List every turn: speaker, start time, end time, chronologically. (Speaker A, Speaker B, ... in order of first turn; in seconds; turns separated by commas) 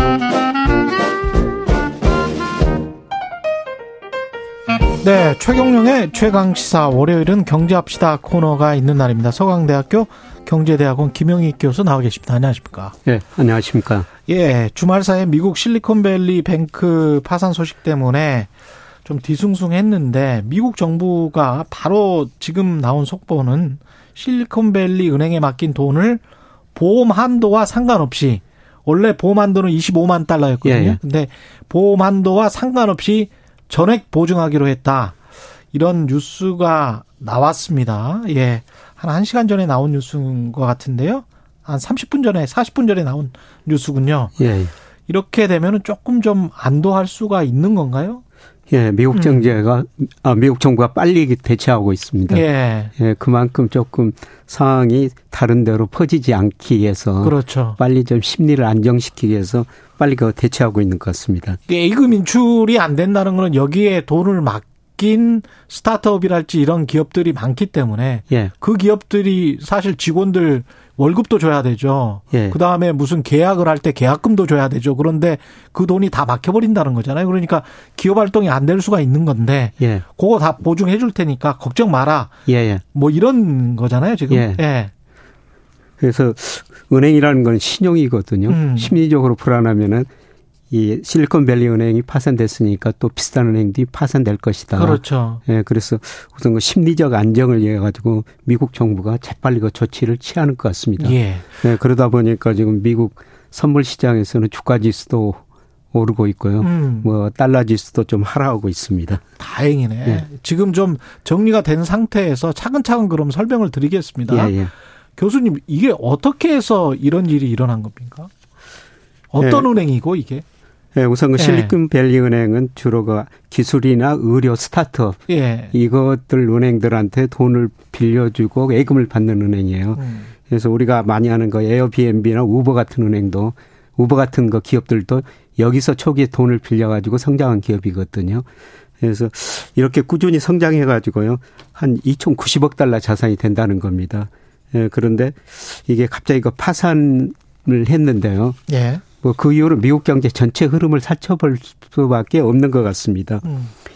Speaker A: 5.0-12.9, Speaker B: 13.0-14.1, Speaker A: 14.3-18.5, Speaker A: 19.0-26.2, Speaker A: 26.7-35.1, Speaker B: 30.6-31.0, Speaker A: 35.7-44.3, Speaker B: 44.4-44.7, Speaker A: 45.1-48.2, Speaker B: 48.7-52.5, Speaker A: 49.1-49.5, Speaker A: 52.3-52.9, Speaker B: 53.0-61.6, Speaker A: 57.2-57.8, Speaker A: 61.7-82.3, Speaker B: 79.8-80.0, Speaker B: 82.5-82.8, Speaker A: 82.9-84.9, Speaker B: 84.3-84.6, Speaker B: 86.0-90.1, Speaker A: 88.5-88.9, Speaker B: 90.7-105.4, Speaker A: 94.7-95.4, Speaker A: 101.0-101.5, Speaker B: 105.9-109.2, Speaker A: 106.6-107.1, Speaker A: 109.4-114.5, Speaker B: 114.3-114.7, Speaker A: 115.2-118.3, Speaker A: 119.3-120.4, Speaker B: 119.4-119.7, Speaker B: 120.9-125.2, Speaker A: 121.4-121.8, Speaker A: 125.3-125.7, Speaker B: 125.7-138.4, Speaker A: 129.9-130.3, Speaker B: 139.0-148.6, Speaker A: 148.7-149.0, Speaker B: 149.2-153.4, Speaker A: 153.4-153.7